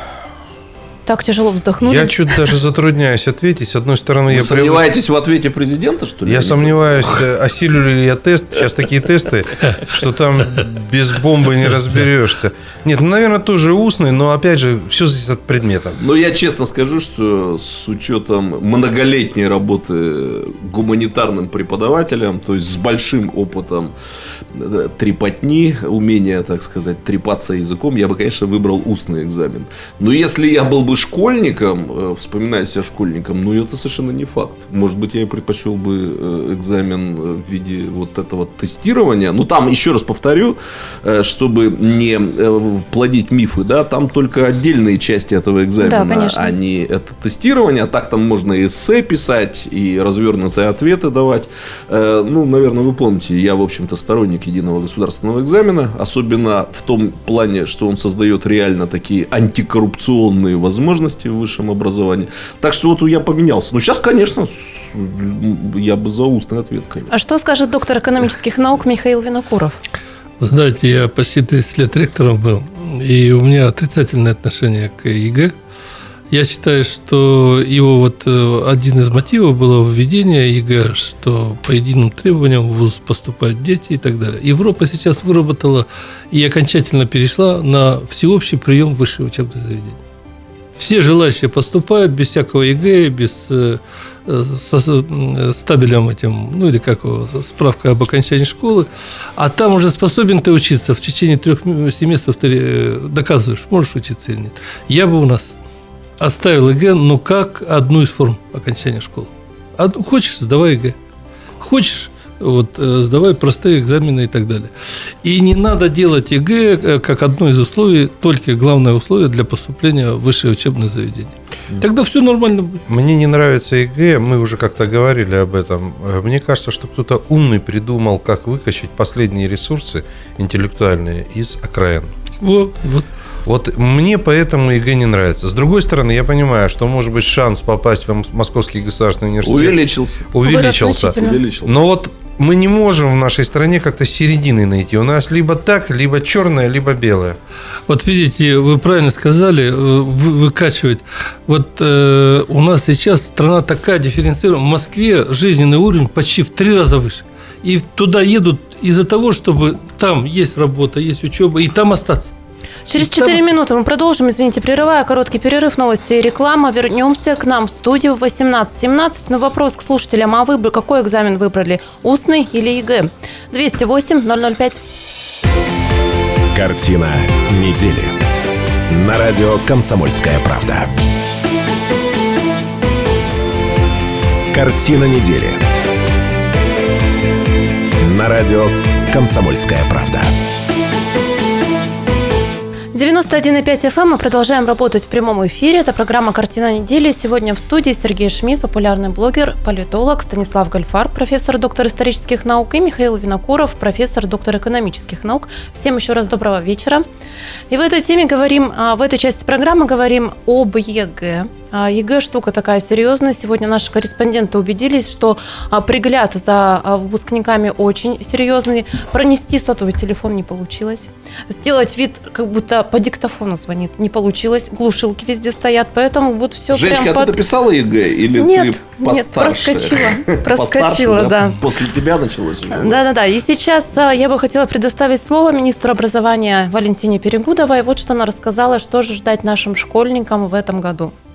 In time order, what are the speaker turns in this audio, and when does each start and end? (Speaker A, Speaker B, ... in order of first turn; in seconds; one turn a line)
Speaker A: 1.1-2.3
Speaker B: 1.8-4.9
Speaker C: 4.3-7.2
Speaker B: 6.2-16.0
Speaker C: 16.0-23.9
Speaker C: 24.5-67.1
Speaker A: 45.8-46.5
Speaker A: 67.1-69.8
Speaker D: 70.4-75.5
Speaker D: 76.3-90.0
Speaker D: 90.8-105.5
Speaker D: 106.2-110.9
Speaker D: 111.6-114.7
Speaker D: 115.2-122.8
Speaker B: 122.9-132.1
Speaker D: 132.4-133.0
Speaker B: 133.4-139.8
Speaker C: 139.4-140.2
Speaker B: 140.3-147.4
Speaker A: 140.4-141.4
Speaker C: 141.2-141.7
Speaker D: 147.9-162.3
Speaker A: 162.9-174.8
Speaker D: 163.0-163.4
Speaker E: 176.5-178.2
Speaker E: 178.9-180.9
Speaker E: 184.5-185.6
Speaker E: 188.0-190.4
Speaker A: 192.9-207.0
Speaker A: 207.7-227.3
Speaker C: 226.7-233.0
Speaker A: 228.4-231.6
Speaker A: 232.7-241.1